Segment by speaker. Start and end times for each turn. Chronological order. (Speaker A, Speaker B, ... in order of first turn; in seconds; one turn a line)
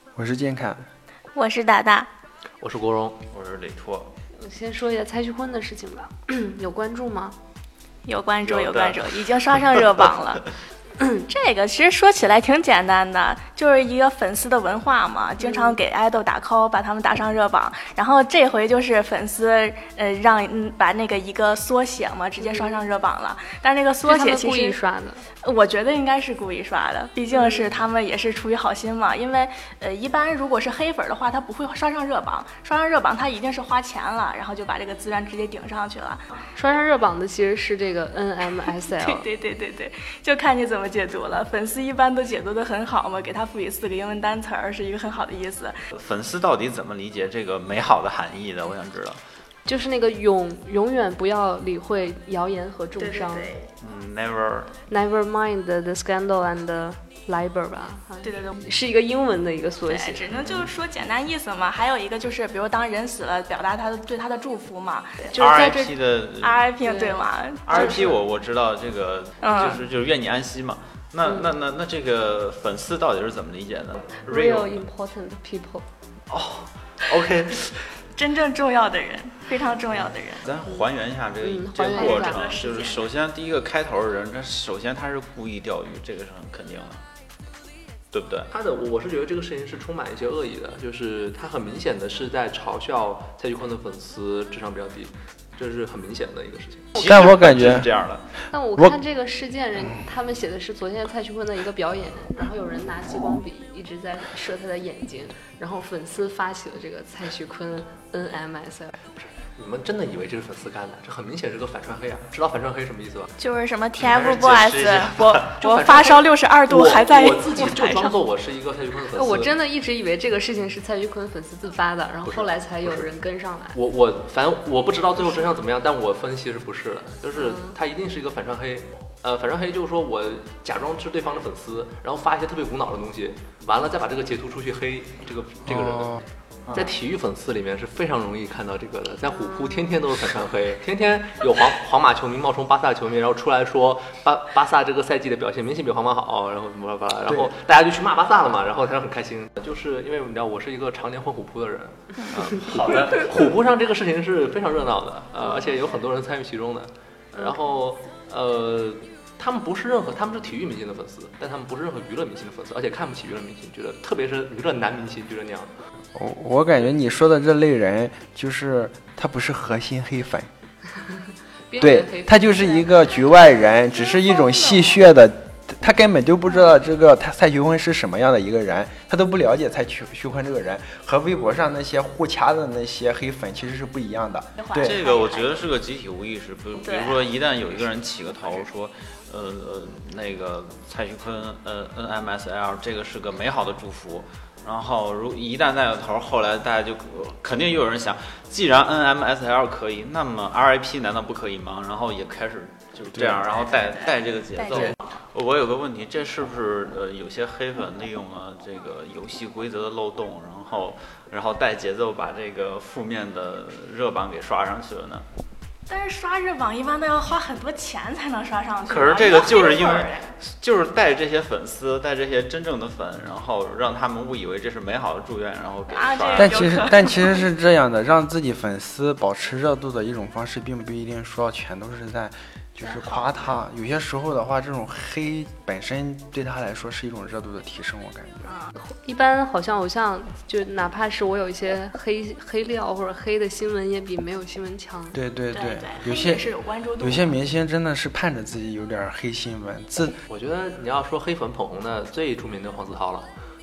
Speaker A: 0.1-0.8
Speaker B: 1.3-2.1
Speaker C: 2.6-3.2
Speaker D: 3.3-4.1
Speaker E: 4.3-7.3
Speaker B: 8.0-10.4
Speaker D: 8.4-10.0
Speaker B: 11.3-24.8
Speaker E: 15.4-15.8
Speaker E: 22.4-22.8
Speaker E: 24.0-25.2
Speaker B: 25.4-36.2
Speaker E: 36.5-39.2
Speaker B: 38.7-45.8
Speaker D: 45.9-49.2
Speaker E: 49.6-53.5
Speaker B: 53.0-53.7
Speaker D: 53.8-54.7
Speaker E: 54.9-60.3
Speaker B: 58.2-58.6
Speaker B: 59.8-68.2
Speaker D: 60.4-60.7
Speaker D: 65.3-66.7
Speaker E: 66.8-68.1
Speaker D: 67.7-74.8
Speaker B: 69.4-69.8
Speaker E: 74.2-75.8
Speaker D: 76.3-78.0
Speaker B: 78.2-80.4
Speaker D: 79.9-87.0
Speaker E: 81.4-82.4
Speaker B: 81.9-83.0
Speaker D: 88.1-88.5
Speaker C: 88.5-96.9
Speaker A: 97.0-97.9
Speaker D: 97.0-98.2
Speaker E: 98.5-108.9
Speaker C: 109.1-113.3
Speaker B: 113.4-118.2
Speaker D: 114.0-115.6
Speaker C: 115.6-119.5
Speaker E: 119.1-123.8
Speaker C: 122.2-123.1
Speaker C: 123.7-165.7
Speaker E: 127.3-127.8
Speaker A: 135.7-136.2
Speaker D: 152.6-153.5
Speaker E: 155.4-155.7
Speaker E: 157.3-157.6
Speaker A: 166.1-170.5
Speaker E: 171.7-173.1
Speaker A: 171.8-185.0
Speaker B: 173.9-175.0
Speaker B: 184.6-185.7
Speaker D: 184.8-215.2
Speaker B: 186.8-187.3
Speaker A: 203.2-203.4
Speaker B: 203.5-205.2
Speaker B: 215.9-220.3
Speaker D: 218.9-226.7
Speaker B: 225.9-227.4
Speaker A: 226.4-238.5
Speaker B: 232.8-233.6
Speaker B: 238.4-238.7
Speaker E: 238.8-245.2
Speaker A: 245.1-246.5
Speaker B: 245.5-247.3
Speaker A: 247.0-250.2
Speaker C: 250.3-253.3